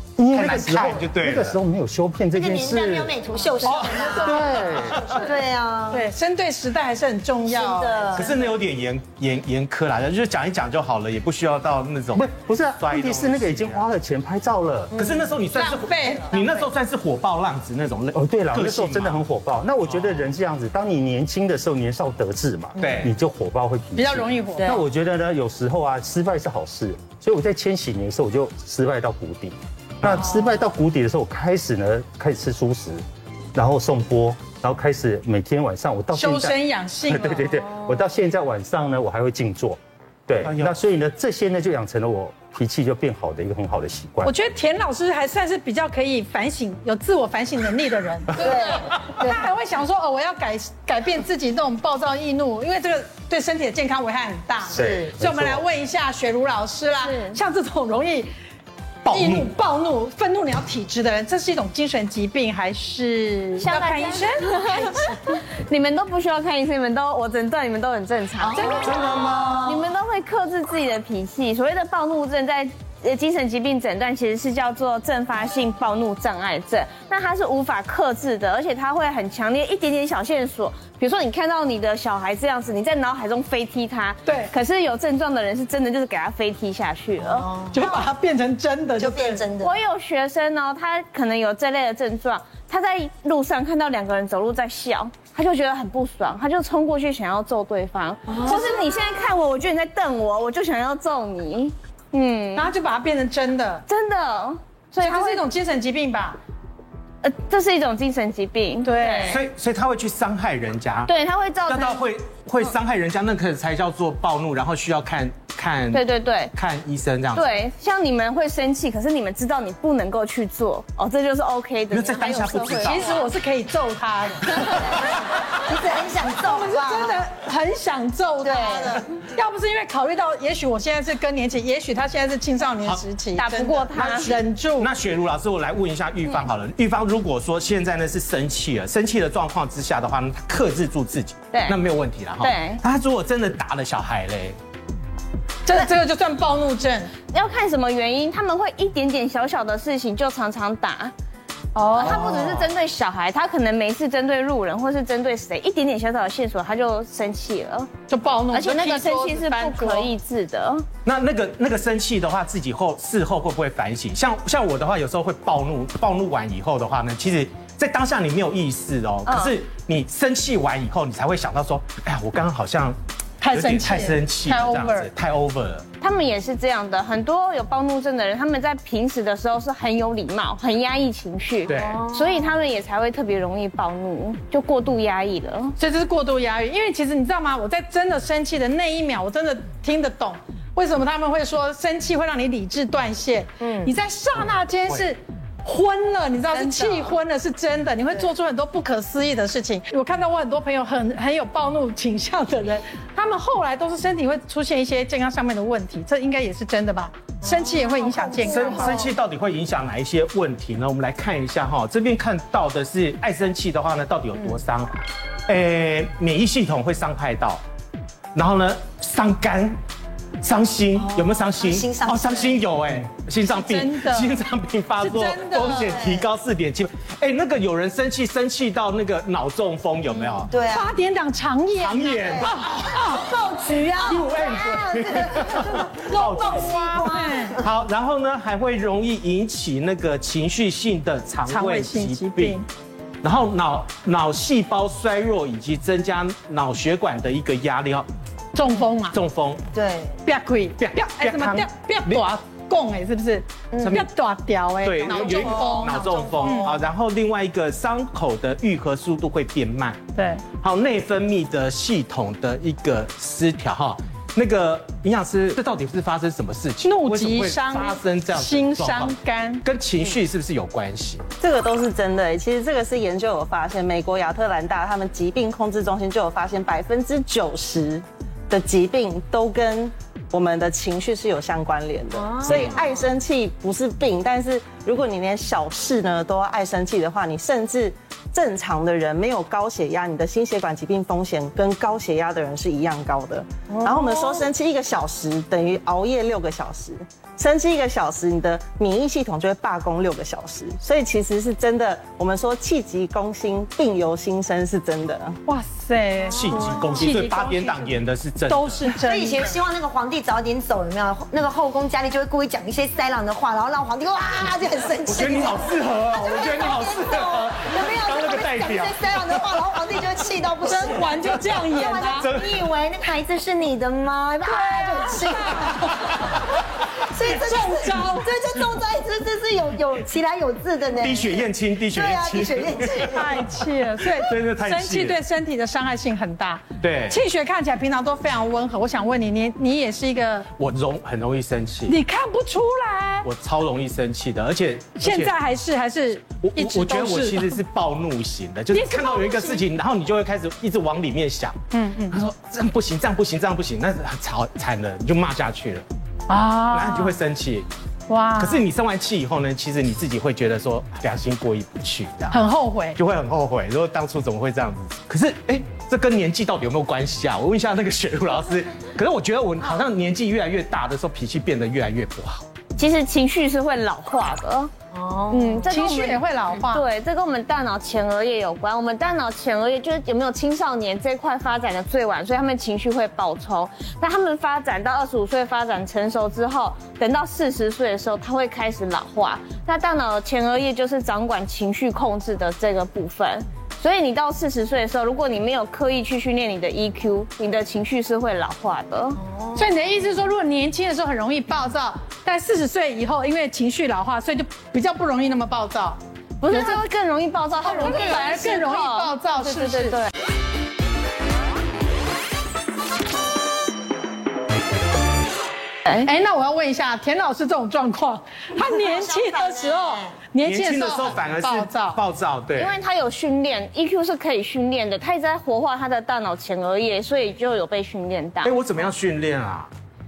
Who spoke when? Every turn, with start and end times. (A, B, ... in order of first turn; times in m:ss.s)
0:00.2-0:03.1 A
0:00.3-0:01.6 B
0:02.3-0:06.0 C
0:03.7-0:04.0 B
0:03.7-0:05.1 D
0:04.2-0:05.2 A
0:05.9-0:08.4 D
0:07.5-0:08.4 C
0:08.2-0:12.2 B
0:12.1-0:15.1 A
0:12.8-0:13.8 B
0:14.9-0:19.2 B
0:15.0-0:15.3 C
0:15.5-0:16.4 D
0:18.1-0:33.0 A
0:19.9-0:20.2 B
0:22.8-0:23.1 B
0:24.0-0:24.8 D
0:33.6-0:44.3 A
0:36.1-0:37.6 D
0:40.4-0:40.8 B
0:44.2-0:58.3 D
0:48.4-0:49.4 C
0:54.7-0:55.6 A
0:54.7-0:55.1 C
0:57.0-0:57.4 E
0:59.0-0:59.5 B
0:59.1-1:05.3 D
1:03.6-1:08.8 E
1:08.4-1:09.9 C
1:08.6-1:09.1 D
1:08.8-1:09.7 B
1:09.6-1:27.5 E
1:24.3-1:24.5 D
1:27.2-1:28.1 C
1:27.7-1:29.4 D
1:29.0-1:29.8 C
1:29.6-1:42.7 E
1:38.3-1:39.1 C
1:42.6-1:43.8 D
1:43.9-1:45.4 E
1:45.0-1:46.4 D
1:47.2-1:49.4 E
1:48.8-1:49.4 D
1:49.3-1:51.1 B
1:51.1-1:52.1 E
1:51.7-1:57.5 B
1:55.9-1:56.5 E
1:57.4-2:03.2 E
2:01.9-2:03.2 B
2:02.8-2:05.1 D
2:05.0-2:07.3 C
2:06.3-2:14.9 D
2:08.4-2:09.1 C
2:13.4-2:14.4 E
2:14.0-2:24.6 B
2:21.5-2:21.8 E
2:22.4-2:22.8 E
2:25.7-2:27.1 D
2:27.3-2:31.1 E
2:31.8-2:32.4 D
2:32.0-2:37.9 E
2:32.0-2:32.7 B
2:38.1-2:40.1 D
2:38.5-2:40.9 E
2:41.0-2:53.0 B
2:49.3-2:49.5 E
2:53.4-2:55.1 D
2:53.5-2:55.9 B
2:56.0-3:05.8 E
3:01.7-3:02.1 B
3:01.7-3:02.5 C
3:05.8-3:29.1 D
3:13.6-3:13.9 C
3:16.5-3:17.1 E
3:27.5-3:29.0 C
3:28.5-3:34.9 B
3:35.5-3:37.6 B
3:38.4-3:39.8 B
3:40.4-3:50.5 B
3:41.0-3:42.6 C
3:43.5-3:44.3 D
3:45.0-3:46.0 D
3:45.6-3:46.3 C
3:50.5-3:50.9 C
3:50.6-3:53.3 D
3:51.8-3:53.0 B
3:52.4-3:57.7 C
3:54.0-4:02.6 B
3:56.0-3:57.6 D
4:01.5-4:02.6 D
4:03.2-4:08.1 B
4:08.6-4:09.2 D
4:09.1-4:09.6 B
4:09.7-4:10.2 C
4:10.2-4:16.8 D
4:10.8-4:12.2 B
4:13.7-4:14.0 C
4:13.8-4:14.1 B
4:14.8-4:20.0 B
4:15.1-4:16.8 C
4:20.2-4:20.4 D
4:20.6-4:31.2 B
4:26.8-4:29.6 D
4:31.4-5:05.4 F
4:42.2-4:43.0 C
4:53.7-4:54.5 C
5:05.5-5:09.6 D
5:06.3-5:08.9 B
5:06.5-5:07.0 C
5:08.9-5:26.2 C
5:15.1-5:19.5 B
5:20.6-5:22.3 D
5:22.2-5:22.6 B
5:24.4-5:26.3 D
5:27.1-5:33.4 C
5:27.2-5:28.3 D
5:31.0-5:33.4 B
5:33.0-5:40.5 D
5:34.0-5:35.2 B
5:36.8-5:37.2 B
5:40.6-5:42.0 B
5:41.9-5:43.3 D
5:43.2-5:45.3 B
5:45.0-5:47.6 D
5:46.4-5:51.6 B
5:48.7-5:49.6 D
5:51.7-5:52.2 D
5:52.1-5:55.9 B
5:56.3-5:57.2 D
5:56.7-5:57.7 B
5:58.1-5:58.6 D
5:58.4-6:02.4 B
6:02.3-6:03.0 D
6:03.0-6:12.5 B
6:12.8-6:14.7 E
6:14.9-6:15.7 C
6:15.3-6:39.2 E
6:15.7-6:16.8 D
6:39.2-6:39.7 C
6:39.6-6:46.8 D
6:46.4-6:50.1 E
6:47.6-6:50.0 D
6:56.0-7:02.0 D
6:58.6-7:00.2 C
7:00.4-7:02.8 B
7:02.6-7:08.6 E
7:08.4-7:09.7 B